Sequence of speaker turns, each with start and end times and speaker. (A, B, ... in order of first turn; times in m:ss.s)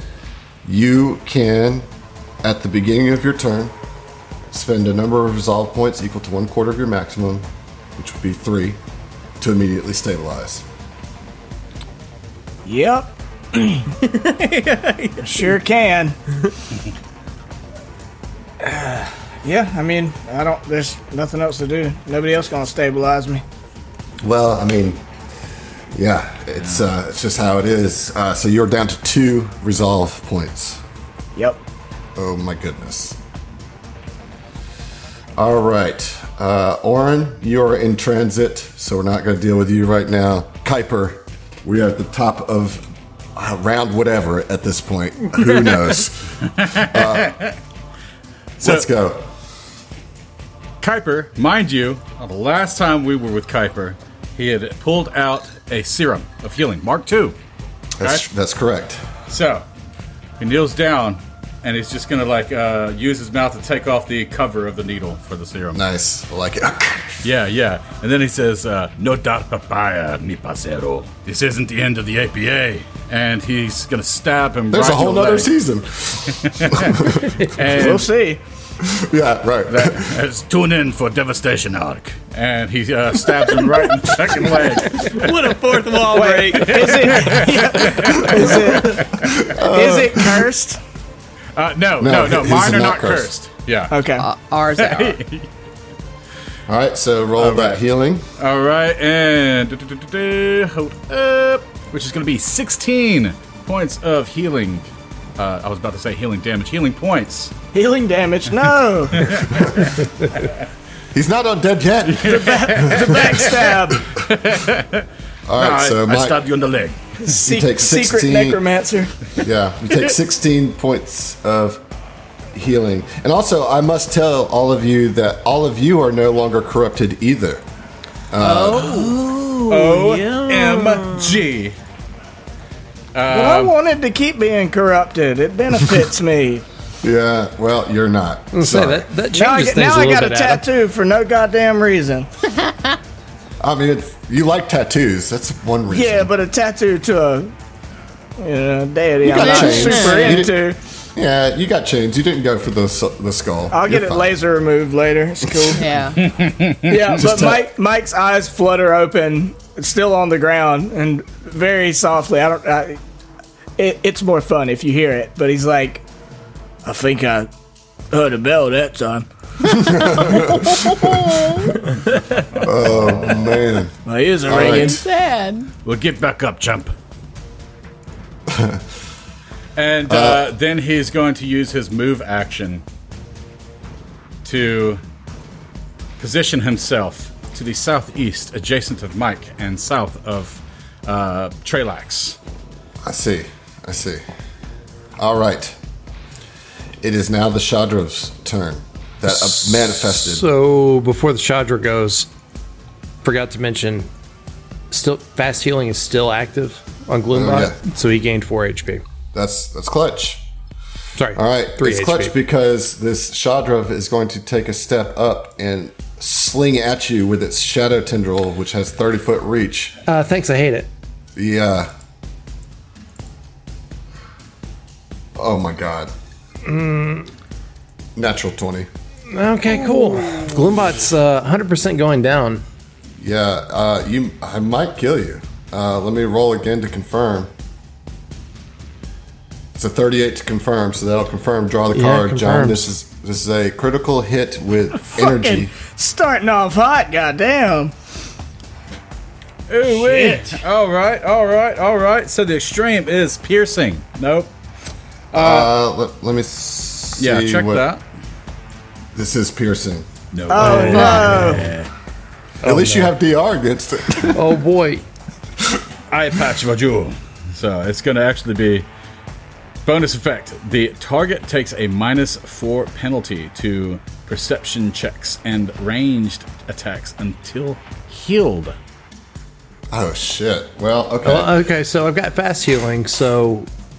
0:00.6-0:01.9 A
0:02.4-0:03.8 A
0:04.5-0:08.8 A
0:09.4-0:10.6 A
0:12.6-0:13.9 B
0:14.0-0:15.5 C
0:15.2-0:16.2 B
0:18.6-0:23.4 B
0:24.2-0:25.0 A
0:25.9-0:30.8 A
0:32.2-0:33.2 A
0:35.4-0:47.4 A
0:46.5-0:47.6 D
0:48.6-0:49.2 A
0:48.6-0:48.9 D
0:50.8-0:57.4 D
0:58.0-0:59.0 A
0:59.3-0:59.6 D
1:00.4-1:05.8 D
1:05.7-1:07.3 A
1:07.2-1:15.5 D
1:14.7-1:17.4 A
1:16.4-1:18.0 D
1:17.6-1:18.4 B
1:18.8-1:20.2 A
1:19.7-1:25.4 D
1:25.0-1:27.4 C
1:26.1-1:30.8 B
1:26.5-1:29.3 D
1:29.2-1:30.5 A
1:31.6-1:33.9 D
1:32.0-1:33.3 A
1:33.9-1:34.3 B
1:34.2-1:35.2 E
1:34.8-1:35.5 D
1:36.7-1:38.2 A
1:37.4-1:37.8 D
1:38.4-1:47.5 D
1:47.7-1:49.4 B
1:49.1-1:50.5 D
1:51.1-1:53.4 A
1:52.0-1:57.2 D
1:52.3-1:54.1 B
1:55.4-1:56.4 A
1:57.2-1:59.1 B
1:57.4-1:58.6 A
1:59.4-2:01.8 A
2:02.5-2:07.6 A
2:08.3-2:09.1 A
2:08.4-2:09.2 E
2:08.8-2:11.4 C
2:09.7-2:11.8 D
2:13.1-2:13.7 D
2:13.2-2:16.6 B
2:17.0-2:19.1 A
2:18.5-2:20.6 F
2:19.3-2:22.3 B
2:22.6-2:22.9 E
2:23.6-2:26.3 A
2:25.9-2:27.5 B
2:28.4-2:30.8 B
2:29.2-2:30.4 E
2:29.2-2:30.6 A
2:31.1-2:34.3 A
2:33.7-2:36.0 B
2:35.4-2:35.8 A
2:35.8-2:36.2 E
2:36.2-2:37.0 D
2:36.9-2:43.0 B
2:37.1-2:37.6 A
2:43.8-2:46.0 B
2:46.8-2:47.5 B
2:48.1-2:49.3 B
2:49.7-2:51.3 A
2:49.8-2:50.4 E
2:51.0-2:51.7 E
2:52.6-2:53.6 D
2:52.6-2:53.9 A
2:54.0-2:55.0 B
2:54.4-2:55.0 A
2:54.5-2:55.7 E
2:55.8-2:56.9 D
2:58.5-2:58.8 A
2:59.8-3:02.8 D
3:00.1-3:00.5 A
3:04.4-3:05.0 D
3:06.2-3:12.4 D
3:13.0-3:14.2 A
3:15.2-3:15.8 A
3:17.0-3:20.5 A
3:19.3-3:22.3 F
3:23.2-3:24.1 F
3:24.9-3:29.0 F
3:27.3-3:27.8 A
3:29.3-3:30.4 A
3:31.2-3:32.4 F
3:31.3-3:40.0 A
3:40.1-3:40.9 F
3:41.4-3:41.9 A
3:45.4-3:46.1 A
3:46.6-3:47.3 F
3:48.2-3:48.9 A
3:49.3-3:52.6 F
3:53.2-3:57.5 A
3:59.8-4:05.7 A
4:01.9-4:02.9 F
4:05.0-4:07.9 B
4:09.7-4:14.5 D
4:15.3-4:15.7 D
4:15.3-4:17.8 A
4:17.2-4:18.0 D
4:19.1-4:20.0 A
4:20.3-4:21.9 D
4:20.5-4:21.7 B
4:20.6-4:21.6 E
4:20.6-4:21.6 F
4:22.6-4:23.1 F
4:22.6-4:24.4 A
4:24.3-4:25.0 F
4:26.1-4:28.9 D
4:29.8-4:38.8 D
4:39.9-4:41.6 A
4:41.2-4:43.7 F